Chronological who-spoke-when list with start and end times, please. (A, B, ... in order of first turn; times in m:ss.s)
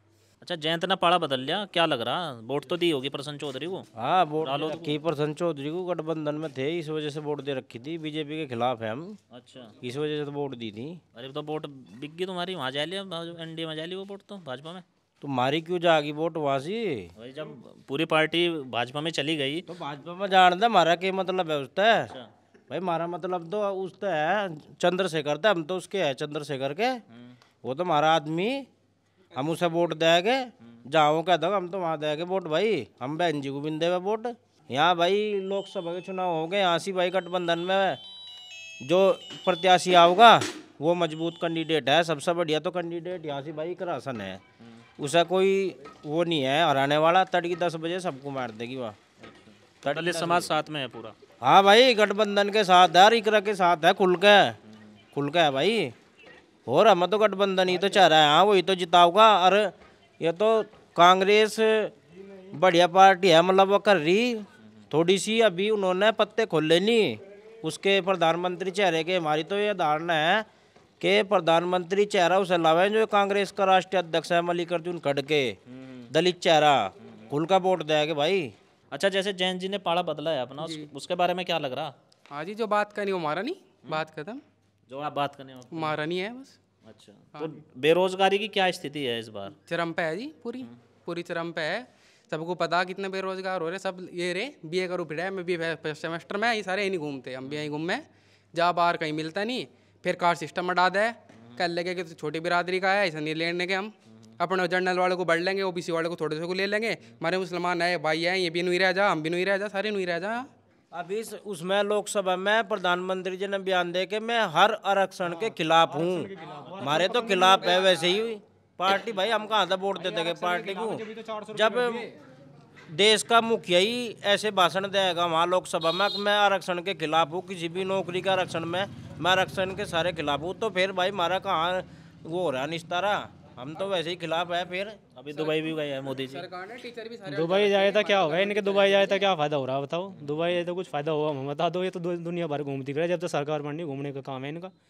0:00.4-0:03.9 A
0:04.0-0:09.2 B
0:04.4-0:05.0 A
0:09.3-0:09.8 A
0:09.8-0:11.0 B
0:11.1-0:14.8 A
0:15.2-0:17.1 B
0:17.2-0:19.7 A
0:19.7-0:22.1 B
0:22.0-0:22.3 A
0:22.7-0:27.0 B
0:27.6-0:28.7 B
0:29.3-0:38.0 B
0:38.8-0:44.4 B
0:45.0-0:49.0 B
0:49.7-0:51.2 A
0:49.8-0:50.5 B
0:51.4-0:54.6 B
0:55.1-0:55.9 B
0:56.7-1:01.9 B
1:02.5-1:10.5 B
1:11.0-1:15.6 B
1:15.7-1:16.1 A
1:16.1-1:18.6 B
1:18.9-1:21.9 A
1:20.6-1:20.9 C
1:22.3-1:24.4 C
1:24.9-1:26.0 A
1:25.7-1:26.5 C
1:26.8-1:29.6 A
1:29.6-1:50.5 C
1:50.9-2:02.1 B
1:55.2-1:57.8 D
2:00.0-2:02.1 D
2:02.9-2:15.0 B
2:15.1-2:16.5 A
2:16.3-2:18.8 C
2:17.2-2:24.7 D